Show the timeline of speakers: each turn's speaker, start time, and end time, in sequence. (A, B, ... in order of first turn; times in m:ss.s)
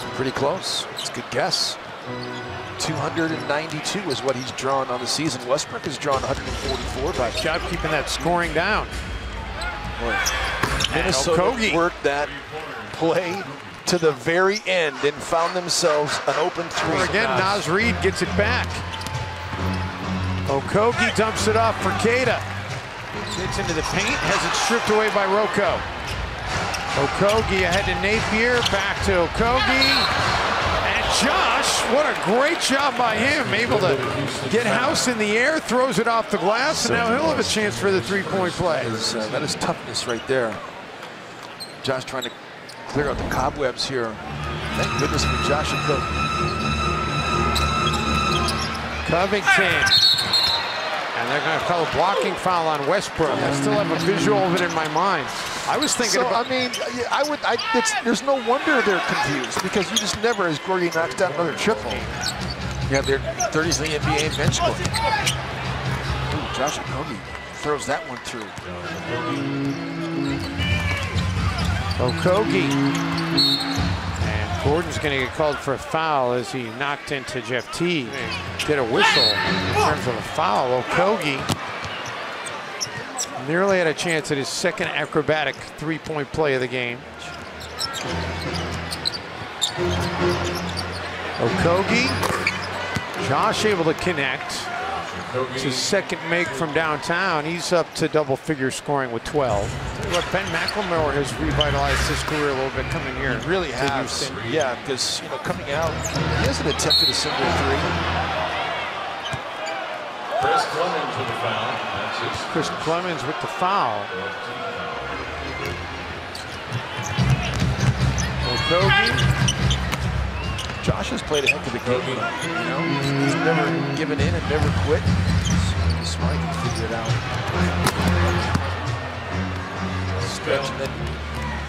0:00.1-0:01.8 A
0:02.8-0:07.4 A
0:07.3-0:09.0 B
0:10.0-0:10.3 A
0:10.9-0:11.8 B
0:10.9-0:17.6 A
0:16.8-0:18.8 B
0:20.5-0:22.4 B
0:23.3-0:25.8 B
0:26.9-0:30.1 B
0:30.8-0:39.0 B
0:36.8-0:37.4 A
0:38.6-0:40.6 A
0:41.8-0:42.3 A
0:42.8-0:46.1 A
0:49.0-0:50.0 B
0:51.2-0:56.4 B
0:56.0-1:02.1 A
1:01.8-1:02.1 B
1:02.9-1:04.9 A
1:06.3-1:08.6 A
1:12.0-1:12.8 B
1:14.2-1:21.5 B
1:23.4-1:27.1 B
1:31.4-1:32.2 B
1:33.2-1:34.7 B
1:35.5-1:44.5 B
1:43.3-1:47.9 A
1:50.4-1:52.5 C
1:52.5-1:54.1 B
1:54.2-1:54.9 C
1:58.4-1:59.2 A
2:00.8-2:07.4 A
2:10.2-2:11.0 A